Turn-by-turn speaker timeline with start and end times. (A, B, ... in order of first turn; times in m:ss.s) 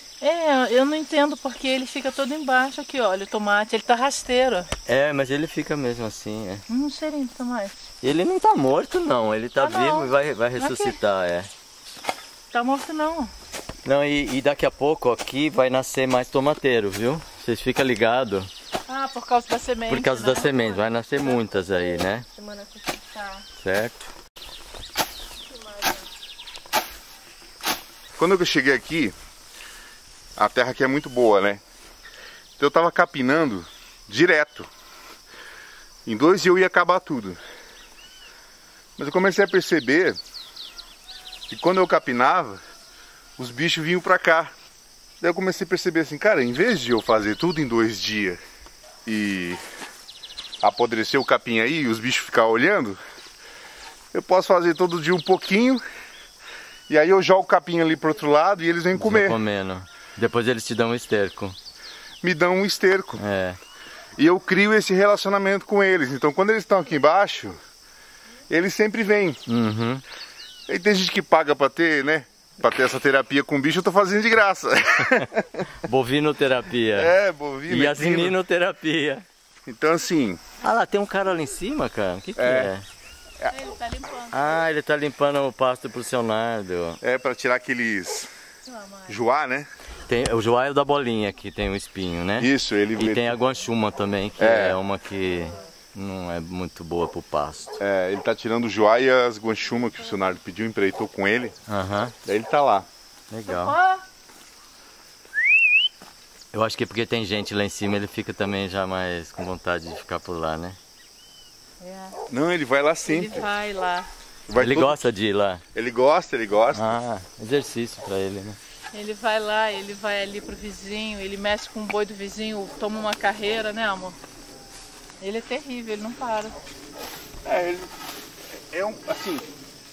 0:00.2-0:04.7 A
0:04.9-0:06.6 B
0:06.7-0:07.8 A
0:08.0-0:11.5 B
0:09.6-0:11.0 A
0:12.5-0:13.3 A
0:13.8-0:18.5 B
0:18.9-0:21.4 A
0:19.9-0:22.2 B
0:22.3-0:23.4 A
0:23.6-0:24.1 B
0:25.5-0:26.0 A
0:28.2-0:29.1 C
0:30.4-0:31.6 C
0:32.6-0:34.7 C
0:36.0-0:37.4 C
0:39.0-0:40.2 C
0:41.5-0:42.6 C
0:43.4-0:44.5 C
0:45.2-0:48.4 C
0:49.0-0:49.6 C
0:50.6-0:53.0 C
0:54.1-0:55.8 C
0:56.9-0:59.4 C
0:59.0-1:01.6 B
1:02.2-1:03.2 C
1:03.2-1:03.6 B
1:04.2-1:07.6 C
1:08.5-1:09.4 C
1:09.5-1:10.0 B
1:10.7-1:15.7 C
1:15.8-1:17.1 B
1:16.9-1:18.4 C
1:17.7-1:19.2 B
1:19.6-1:20.4 C
1:20.6-1:22.8 B
1:22.4-1:22.7 C
1:23.5-1:24.6 A
1:24.3-1:27.0 B
1:27.0-1:28.3 C
1:28.6-1:29.2 A
1:29.1-1:29.7 C
1:30.1-1:37.8 B
1:32.4-1:33.4 C
1:34.4-1:34.8 C
1:37.8-1:41.6 C
1:41.7-1:42.1 B
1:42.2-1:42.9 C
1:43.3-1:43.7 B
1:43.5-1:44.0 A
1:46.5-1:50.8 B
1:51.8-1:52.2 A
1:52.3-1:53.5 C
1:53.1-1:54.1 A
1:54.5-1:55.1 C
1:54.6-1:55.6 B
1:55.7-1:57.0 C
1:56.7-1:58.6 B
1:58.9-2:04.2 A
2:05.2-2:06.5 A
2:07.4-2:07.9 C
2:08.7-2:09.4 C